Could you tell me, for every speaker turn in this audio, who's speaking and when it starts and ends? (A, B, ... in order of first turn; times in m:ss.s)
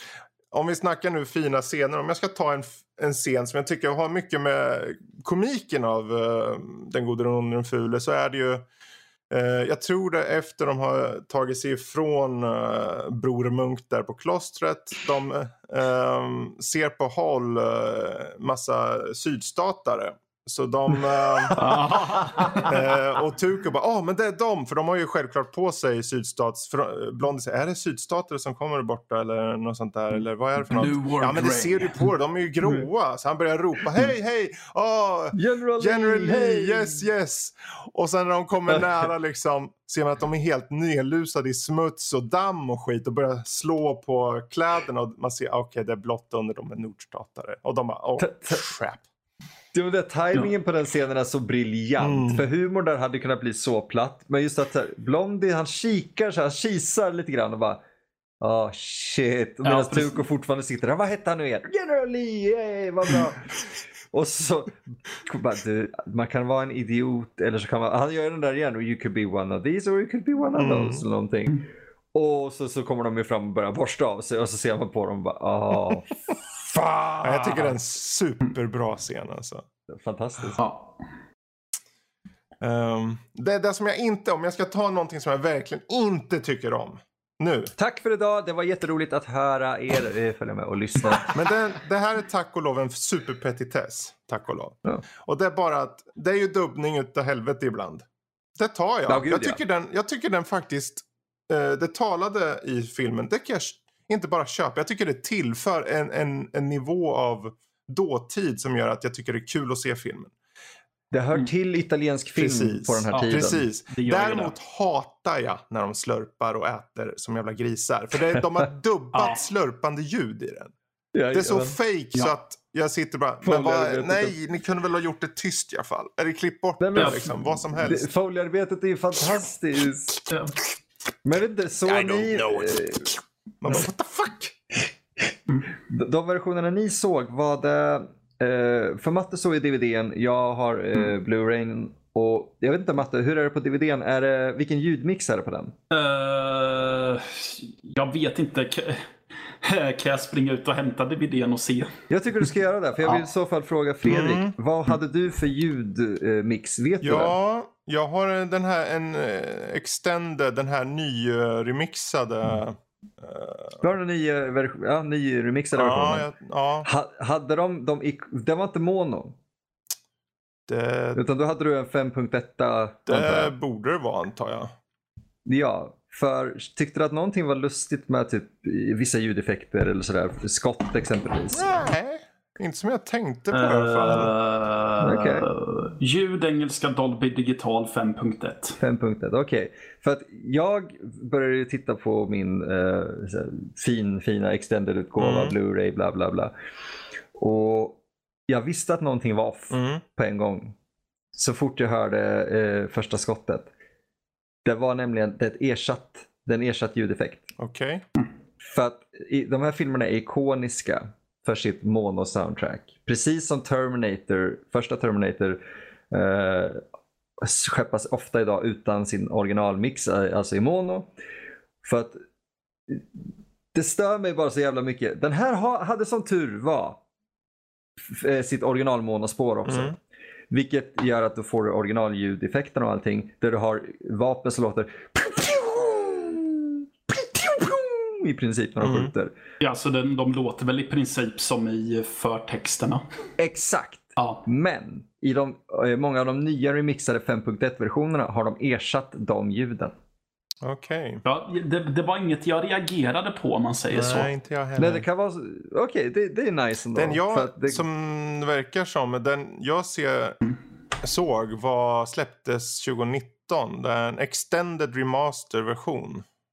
0:00.5-0:08.7 A
0:09.3-0:22.1 A
0:21.6-0:22.8 B
0:22.6-0:49.0 A
0:30.7-0:32.1 B
0:35.3-0:37.0 C
0:48.2-0:48.6 C
0:49.7-0:57.8 C
0:52.0-0:52.5 A
0:58.4-1:17.7 C
0:59.6-1:00.2 B
1:10.6-1:11.0 A
1:17.2-1:19.7 A
1:19.9-1:20.6 C
1:20.6-1:21.0 B
1:22.6-1:27.7 A
1:27.8-1:31.3 C
1:31.3-1:50.4 A
1:39.1-1:39.6 C
1:51.1-1:53.7 C
1:52.4-2:00.7 A
1:53.1-1:54.5 B
2:01.1-2:01.8 C
2:01.3-2:08.1 A
2:03.4-2:04.3 C
2:06.8-2:10.2 C
2:07.0-2:07.4 B
2:10.3-2:10.6 B
2:11.2-2:13.1 C
2:11.9-2:14.8 A
2:15.9-2:25.8 C
2:25.9-2:29.1 B
2:29.6-2:32.0 B
2:32.1-2:37.3 C
2:34.1-2:34.6 A
2:37.0-2:43.8 A
2:43.8-2:46.3 C
2:45.8-2:46.9 A
2:46.8-2:49.4 C
2:50.7-2:51.2 A
2:51.2-2:53.5 C
2:53.1-2:54.7 A
2:55.5-3:01.8 C
3:01.5-3:04.3 A
3:03.5-3:08.8 B
3:05.0-3:05.5 C
3:08.8-3:16.5 C
3:15.2-3:15.6 A
3:17.4-3:20.8 C
3:19.7-3:20.0 A
3:21.4-3:23.7 C
3:24.6-3:27.5 C
3:27.6-3:28.0 A
3:28.6-3:36.8 C
3:37.4-3:41.1 C
3:41.8-3:42.2 C
3:43.7-3:47.0 C
3:48.0-3:50.0 C
3:49.7-3:50.0 A
3:50.5-3:59.3 C
3:58.8-3:59.1 A
3:59.6-4:03.0 B
4:03.4-4:10.0 C
4:04.2-4:04.4 B
4:10.6-4:11.2 A
4:11.2-4:14.3 B
4:13.9-4:15.1 A
4:14.8-4:17.8 C
4:16.9-4:20.4 A
4:21.0-4:26.2 A